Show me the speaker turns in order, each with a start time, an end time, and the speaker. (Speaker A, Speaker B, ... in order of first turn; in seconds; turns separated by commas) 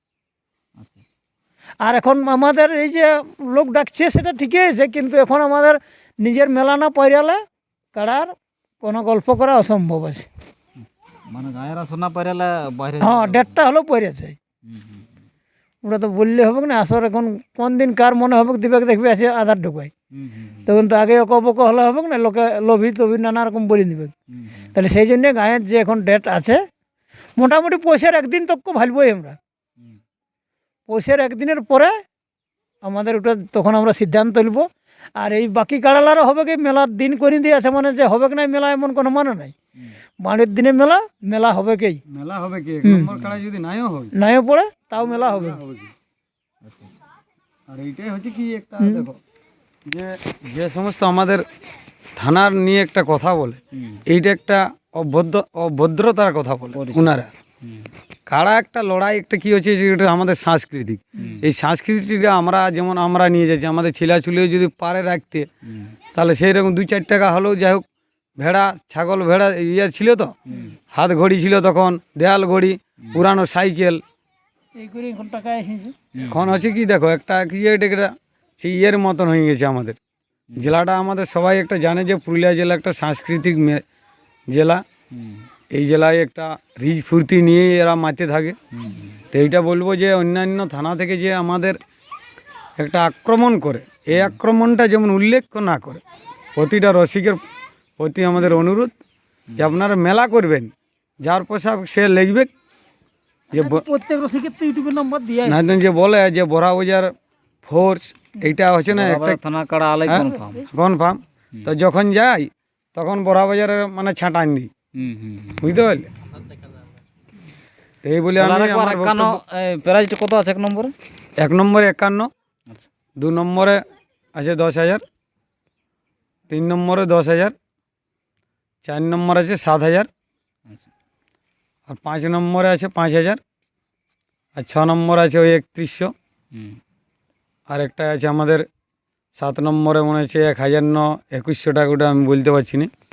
Speaker A: 0.8-1.0, Speaker B: 1.8-7.4, Speaker B: 8.0-10.3, Speaker A: 10.8-13.6, Speaker B: 13.0-14.4, Speaker A: 14.7-15.1, Speaker B: 15.8-19.9, Speaker A: 20.1-20.7, Speaker B: 20.7-24.1, Speaker A: 24.3-24.7, Speaker B: 24.7-26.6, Speaker B: 27.4-29.4, Speaker B: 30.9-31.9, Speaker B: 32.8-39.5, Speaker B: 40.2-42.0, Speaker C: 42.1-44.1, Speaker B: 42.8-43.1, Speaker B: 44.2-45.6, Speaker C: 45.0-45.9, Speaker A: 46.6-46.9, Speaker C: 47.7-49.2, Speaker B: 48.8-49.1, Speaker C: 49.9-51.4, Speaker C: 52.2-57.3, Speaker A: 53.7-54.0, Speaker A: 56.7-57.9, Speaker C: 58.3-65.5, Speaker A: 61.2-61.4, Speaker A: 65.7-65.9, Speaker C: 66.1-67.8, Speaker C: 68.4-70.3, Speaker A: 70.5-70.8, Speaker C: 70.9-74.0, Speaker B: 74.8-76.0, Speaker A: 76.1-76.7, Speaker C: 76.3-80.0, Speaker A: 80.5-80.8, Speaker C: 80.6-83.8, Speaker C: 84.5-84.8, Speaker A: 85.1-85.5, Speaker C: 85.7-88.6, Speaker A: 88.7-89.2, Speaker C: 89.3-91.8, Speaker C: 92.8-96.0, Speaker C: 96.6-97.4, Speaker C: 98.0-98.9, Speaker C: 99.6-100.7, Speaker C: 101.2-102.5, Speaker C: 103.5-103.8, Speaker B: 103.5-105.6, Speaker C: 105.5-107.1, Speaker C: 107.7-109.4, Speaker A: 108.9-110.7, Speaker C: 110.0-114.7, Speaker A: 115.0-115.8, Speaker C: 115.6-116.1, Speaker C: 118.0-119.4, Speaker A: 118.4-120.9, Speaker C: 121.4-122.3, Speaker C: 123.2-123.8, Speaker C: 124.4-125.0, Speaker C: 126.5-127.5, Speaker C: 128.8-130.1, Speaker C: 131.9-133.4, Speaker C: 134.6-136.1, Speaker A: 136.5-136.8, Speaker C: 137.7-138.7, Speaker C: 139.4-142.9